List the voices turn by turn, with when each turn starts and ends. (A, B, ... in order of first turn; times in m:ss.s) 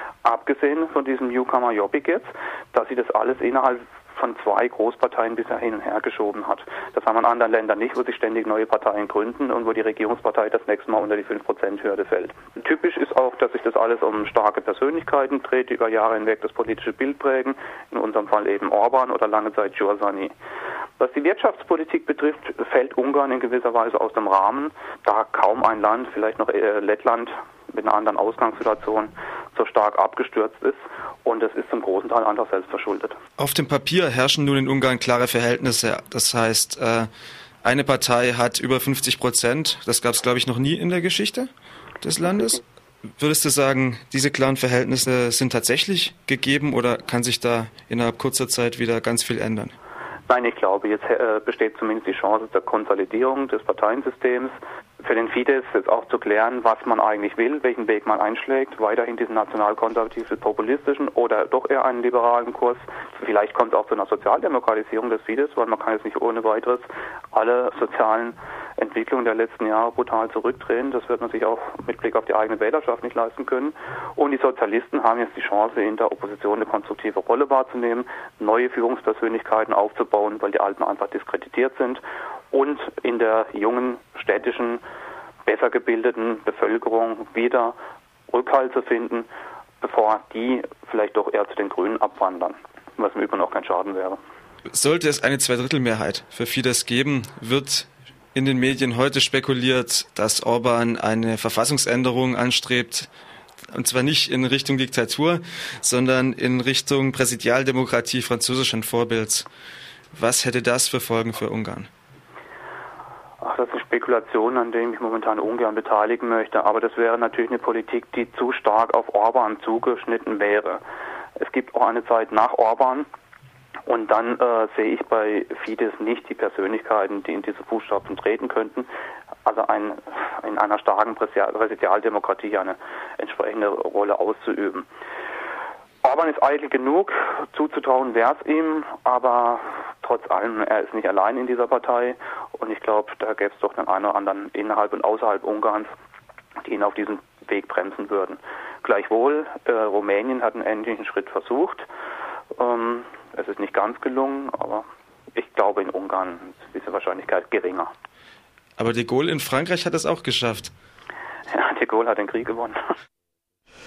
0:00.2-0:20.3 A
0:21.0-0:33.2 A
0:33.4-0:37.1 B
0:37.6-0:41.5 B
0:42.0-0:42.6 B
0:43.2-0:49.7 B
0:50.3-1:24.8 A
1:25.4-1:27.8 A
1:28.3-1:29.3 A
1:29.8-1:34.2 A
1:34.7-1:43.1 B
1:43.7-1:49.5 B
1:50.1-1:51.9 B
1:53.4-2:00.8 A
2:01.4-2:03.1 A
2:03.9-2:08.9 A
2:09.4-2:14.9 A
2:16.0-2:25.9 A
2:26.6-2:31.9 A
2:32.6-2:37.9 A
2:38.8-2:40.7 B
2:41.5-2:42.8 A